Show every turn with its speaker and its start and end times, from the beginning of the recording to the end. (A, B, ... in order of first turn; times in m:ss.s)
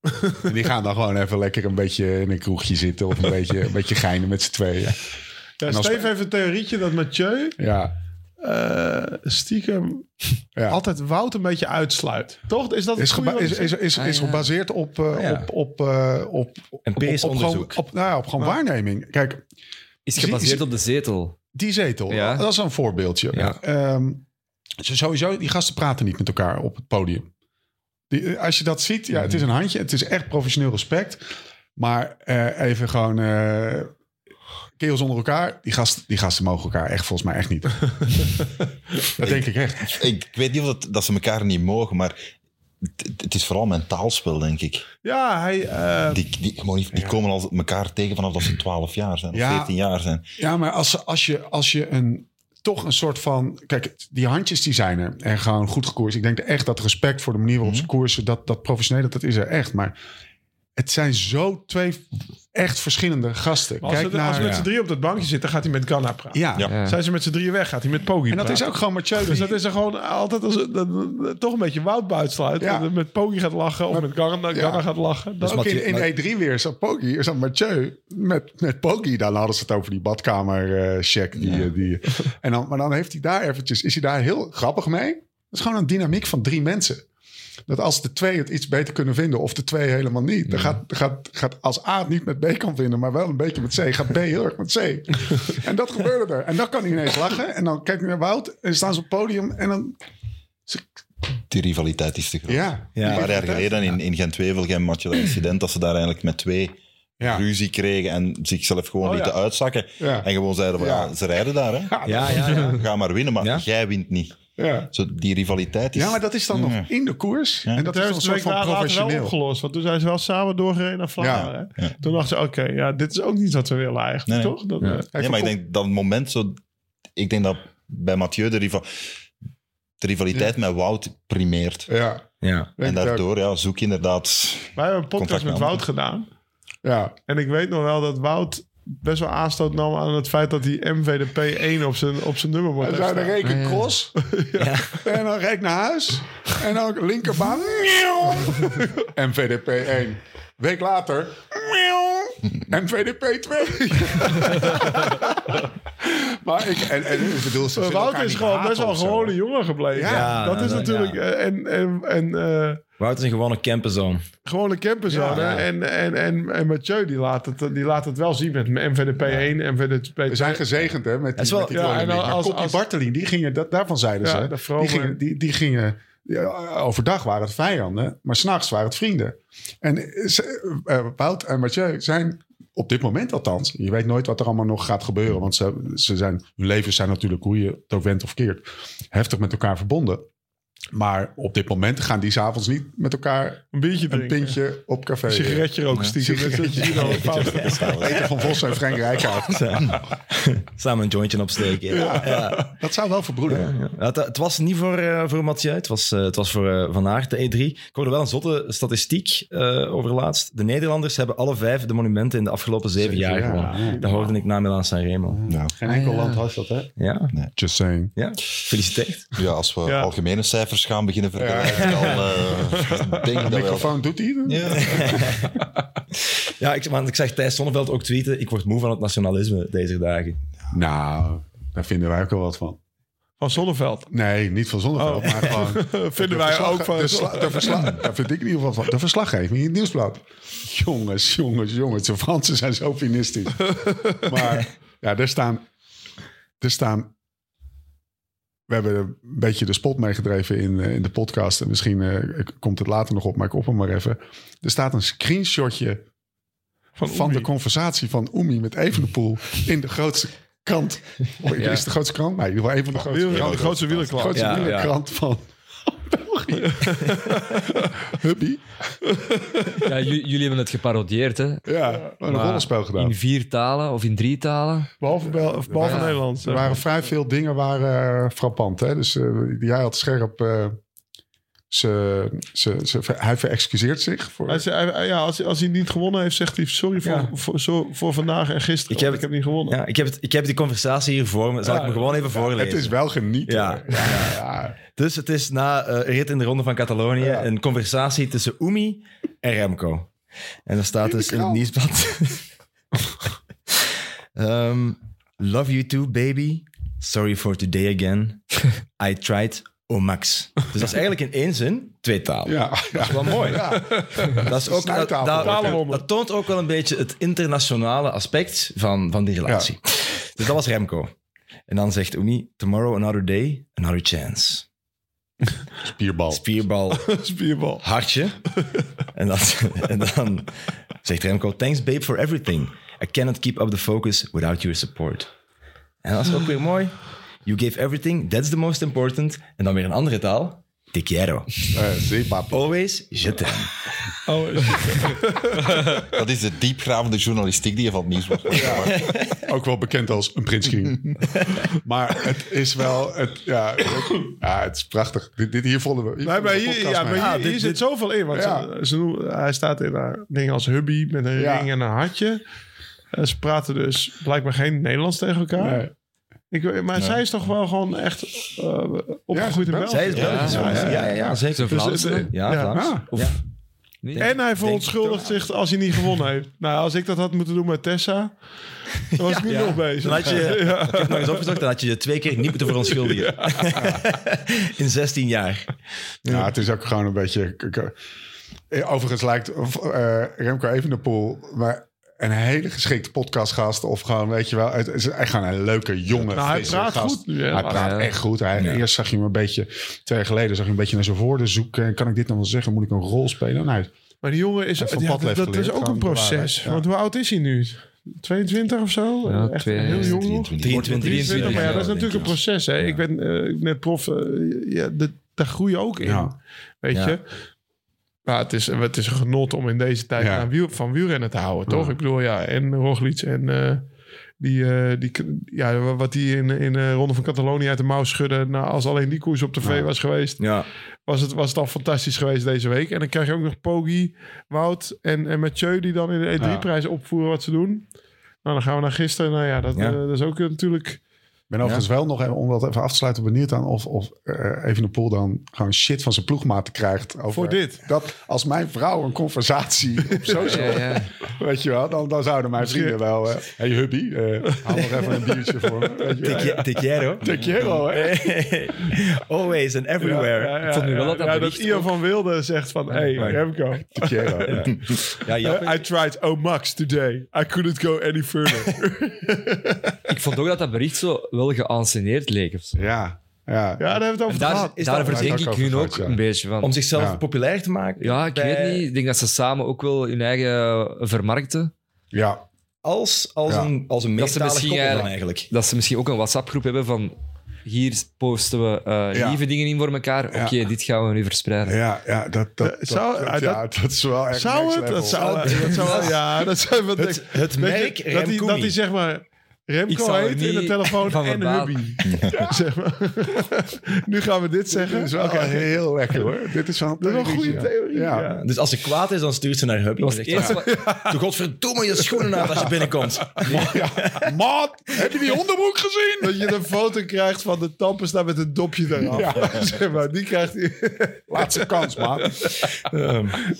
0:00.3-0:05.0 A
0:05.6-0:07.6 B
0:05.6-0:06.1 A
0:07.6-0:07.9 A
0:08.4-0:13.8 B
0:13.0-0:19.4 A
0:13.9-0:14.5 C
0:15.1-0:15.5 D
0:16.8-0:17.8 D
0:20.0-0:21.4 C
0:20.1-0:20.7 A
0:21.5-0:24.2 A
0:22.1-0:22.4 C
0:23.3-0:23.6 D
0:24.8-0:27.3 A
0:28.1-0:31.2 A
0:31.8-0:33.9 A
0:34.8-0:38.1 A
0:39.2-0:40.0 A
0:39.2-0:42.1 E
0:43.0-0:44.8 E
0:45.0-0:46.3 B
0:46.1-0:50.2 E
0:49.3-0:49.7 A
0:50.4-0:59.9 A
1:00.8-1:04.6 A
1:03.8-1:15.6 B
1:04.4-1:04.6 D
1:06.3-1:06.7 A
1:06.7-1:07.0 C
1:08.3-1:09.6 A
1:12.6-1:12.9 A
1:13.9-1:14.8 A
1:15.4-1:27.0 A
1:15.4-1:16.1 D
1:27.7-1:40.0 A
1:41.5-1:56.9 E
1:42.5-1:43.9 A
1:42.9-1:43.3 D
1:49.0-1:49.4 B
1:50.0-1:51.1 A
1:51.9-1:52.7 A
1:52.0-1:52.8 D
1:54.6-1:54.9 A
1:55.9-1:59.4 A
1:57.8-2:05.1 B
2:01.2-2:01.5 A
2:01.2-2:02.0 E
2:04.2-2:06.6 E
2:05.1-2:05.5 A
2:07.1-2:09.1 E
2:10.0-2:11.9 E
2:11.9-2:12.2 A
2:12.4-2:12.7 D
2:12.8-2:13.2 A
2:12.8-2:15.8 E
2:14.8-2:16.3 B
2:16.8-2:17.1 A
2:17.3-2:23.4 B
2:22.8-2:24.1 A
2:23.4-2:23.9 C
2:24.2-2:24.8 B
2:24.5-2:25.0 D
2:25.0-2:35.3 A
2:33.9-2:35.6 B
2:36.0-2:39.4 A
2:37.7-2:42.8 B
2:39.9-2:40.8 A
2:40.0-2:41.2 D
2:43.0-2:44.2 D
2:44.4-2:50.6 B
2:45.1-2:45.6 A
2:45.2-2:45.7 D
2:50.3-3:10.3 A
2:51.4-2:52.3 D
2:51.7-2:52.8 B
2:54.2-2:55.2 B
3:10.9-3:19.6 A
3:13.7-3:14.6 B
3:15.3-3:18.2 B
3:16.9-3:18.3 E
3:17.4-3:22.7 D
3:21.9-3:23.7 A
3:21.9-3:22.6 B
3:23.5-3:35.4 D
3:33.0-3:34.1 A
3:35.3-3:36.9 A
3:35.5-3:35.7 E
3:35.8-3:36.4 C
3:37.0-3:37.3 D
3:37.5-3:38.1 A
3:38.1-3:39.3 D
3:39.4-3:45.5 E
3:39.8-3:40.1 B
3:41.4-3:42.2 A
3:42.7-3:43.2 B
3:43.4-3:45.5 A
3:44.8-3:45.5 D
3:46.2-3:50.4 D
3:50.7-3:52.8 A
3:53.4-3:54.1 B
3:54.1-4:05.6 A
3:55.0-3:58.0 B
4:03.7-4:04.5 B
4:06.6-4:07.1 A
4:08.7-4:16.0 A
4:17.0-4:17.5 B
4:17.0-4:26.9 A
4:21.5-4:21.8 C
4:23.0-4:24.6 E
4:23.1-4:24.8 B
4:24.3-4:24.9 D
4:26.7-4:27.9 B
4:27.8-4:28.6 A
4:29.1-4:29.8 B
4:29.8-4:34.9 C
4:31.6-4:33.1 A
4:35.0-4:36.8 B
4:35.6-4:40.8 A
4:35.8-4:36.2 C
4:41.7-4:44.6 A
4:44.5-4:49.8 B
4:47.0-4:47.3 D
4:48.9-4:52.9 D
4:51.6-4:52.2 B
4:52.3-4:54.8 A
4:53.4-4:54.4 D
4:55.0-5:00.1 D
4:57.2-4:57.5 A
5:00.6-5:02.5 D
5:01.1-5:01.6 A
5:04.4-5:21.1 D
5:12.4-5:15.8 A
5:13.5-5:14.4 B
5:15.4-5:16.0 B
5:19.4-5:19.7 A
5:21.7-5:24.6 D
5:25.8-5:26.4 A
5:26.3-5:27.1 D
5:26.9-5:27.8 B
5:27.8-5:28.4 D
5:29.1-5:35.3 D
5:36.0-5:41.8 D
5:41.7-5:42.6 A
5:42.5-5:43.7 D
5:44.2-5:46.0 B
5:46.0-5:49.2 E
5:48.5-5:51.2 A
5:48.6-5:48.8 B
5:48.9-5:49.4 D
5:51.8-5:57.3 A
5:56.2-6:02.4 B
5:57.1-5:57.8 D
5:58.3-5:58.7 A
6:01.4-6:01.7 A
6:03.1-6:05.9 B
6:05.6-6:05.9 A
6:06.5-6:12.9 B
6:06.9-6:07.2 D
6:09.3-6:11.4 A
6:09.9-6:13.4 D
6:10.2-6:11.0 C
6:11.5-6:12.3 C
6:12.7-6:13.1 A
6:14.0-6:14.3 C
6:14.1-6:15.5 D
6:14.2-6:18.5 B
6:19.0-6:21.6 B
6:19.2-6:26.5 D
6:22.9-6:23.6 B
6:23.8-6:24.0 A
6:26.2-6:27.9 A
6:28.7-6:43.9 A
6:36.3-6:37.9 B
6:37.7-6:38.1 C
6:38.5-6:38.8 D
6:44.2-6:57.2 B
6:44.8-6:46.8 A
6:49.2-6:50.2 C
6:49.8-6:52.3 E
6:50.6-6:53.0 D
6:50.7-6:51.1 A
6:51.0-6:51.8 C
6:56.0-6:56.3 A
6:56.9-6:57.2 D
6:58.2-7:17.9 B
7:00.2-7:00.5 A
7:01.7-7:01.9 A
7:09.6-7:09.9 A
7:10.4-7:10.7 D
7:16.4-7:16.7 A
7:18.4-7:21.0 B
7:19.7-7:20.0 D
7:21.5-7:36.6 A
7:27.3-7:27.8 B
7:30.1-7:30.7 B
7:30.4-7:31.1 C
7:32.6-7:33.0 B
7:34.6-7:36.6 B
7:36.2-7:40.6 D
7:37.2-7:38.2 A
7:40.0-7:50.0 B
7:40.7-7:42.0 C
7:42.9-7:43.4 C
7:43.2-7:43.4 D
7:43.9-7:44.6 A
7:44.4-7:45.8 D
7:50.1-7:52.8 C
7:52.7-7:53.8 A
7:53.8-7:55.4 B
7:54.3-7:56.7 C
7:54.3-7:54.6 D
7:55.0-7:56.2 A
7:56.6-7:58.9 D
7:56.9-7:57.2 A
7:58.0-8:01.7 C
8:02.1-8:02.4 A
8:02.8-8:05.5 D
8:04.2-8:11.8 C
8:09.1-8:09.4 A
8:11.6-8:16.2 A
8:12.6-8:13.6 B
8:14.3-8:26.3 B
8:15.2-8:16.2 D
8:17.0-8:18.8 D
8:19.9-8:22.0 C
8:22.0-8:22.4 E
8:24.7-8:28.3 A
8:27.0-8:28.4 B
8:28.4-8:34.3 D
8:30.0-8:30.8 C
8:30.4-8:31.2 B
8:32.2-8:32.5 B
8:33.4-8:36.6 A
8:36.2-8:42.6 B
8:39.0-8:39.7 A
8:41.3-8:42.4 A
8:42.9-8:43.4 D